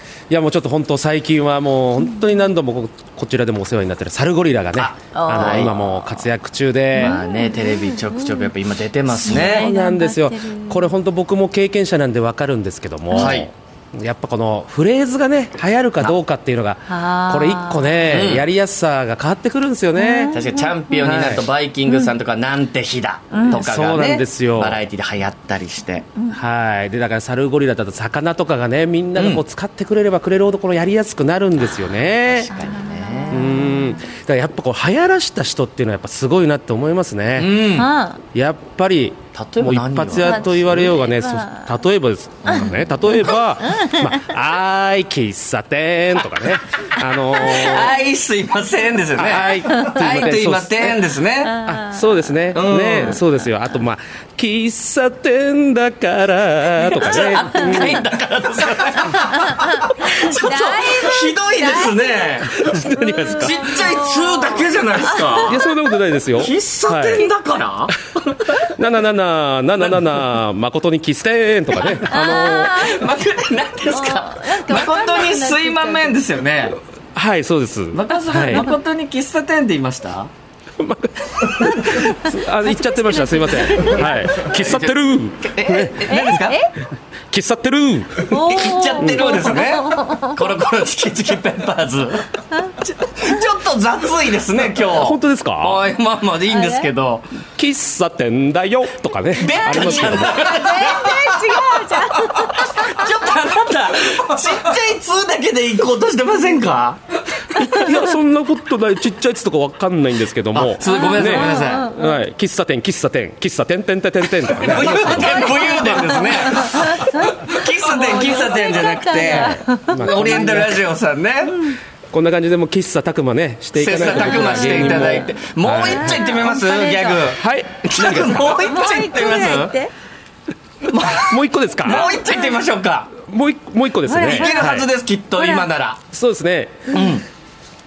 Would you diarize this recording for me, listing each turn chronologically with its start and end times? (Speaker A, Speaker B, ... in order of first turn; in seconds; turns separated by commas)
Speaker A: 0.3-7.2, Speaker B: 2.0-2.5, Speaker C: 4.7-5.7, Speaker B: 5.1-6.1, Speaker B: 6.9-8.5, Speaker C: 6.9-9.7, Speaker A: 9.2-20.3, Speaker B: 9.2-10.9, Speaker B: 13.1-13.4, Speaker C: 13.1-13.5, Speaker B: 16.9-18.2, Speaker C: 18.1-18.4, Speaker B: 19.9-21.1, Speaker C: 20.3-26.1, Speaker A: 21.0-21.4, Speaker B: 21.9-22.1, Speaker B: 23.3-23.6, Speaker A: 23.5-24.8, Speaker A: 26.3-32.5, Speaker C: 29.1-29.4, Speaker C: 31.7-33.5, Speaker B: 32.5-34.0, Speaker A: 33.3-37.5, Speaker C: 37.3-37.9, Speaker B: 37.7-38.2, Speaker A: 38.3-47.9, Speaker C: 39.3-40.9, Speaker B: 40.1-41.8, Speaker C: 42.4-42.9, Speaker B: 42.5-44.2, Speaker C: 47.3-51.6, Speaker A: 49.1-51.0, Speaker B: 49.7-50.0, Speaker B: 51.4-52.2, Speaker A: 51.6-58.0, Speaker C: 52.5-53.2, Speaker C: 56.8-62.6, Speaker B: 59.1-62.4, Speaker A: 62.5-64.1, Speaker B: 63.0-65.6, Speaker C: 63.3-65.6, Speaker A: 65.4-67.2, Speaker C: 66.3-68.7, Speaker A: 68.8-72.9, Speaker C: 71.8-76.8, Speaker B: 72.1-73.0, Speaker B: 73.9-76.2, Speaker A: 77.1-78.7, Speaker C: 77.9-80.3, Speaker A: 80.8-86.2, Speaker B: 81.9-84.2, Speaker C: 84.0-86.6, Speaker B: 86.1-86.7, Speaker A: 87.3-88.4, Speaker B: 88.3-90.4, Speaker C: 88.3-97.3, Speaker A: 89.0-89.3, Speaker A: 95.0-95.8, Speaker B: 96.5-96.9, Speaker A: 97.6-100.6, Speaker C: 99.4-108.0, Speaker B: 99.7-103.1, Speaker A: 107.5-116.1, Speaker C: 110.5-111.9, Speaker B: 110.8-112.2, Speaker C: 114.6-121.7, Speaker B: 114.8-120.7, Speaker A: 119.1-120.8, Speaker B: 121.5-121.8, Speaker A: 122.1-126.2, Speaker C: 123.7-129.7, Speaker B: 124.1-127.3, Speaker A: 127.4-128.6, Speaker B: 128.6-129.9, Speaker C: 130.9-133.1, Speaker A: 131.1-132.2, Speaker A: 133.1-134.9, Speaker B: 134.0-134.6, Speaker C: 134.2-136.0, Speaker B: 135.4-135.7, Speaker A: 136.1-137.0, Speaker C: 136.9-137.2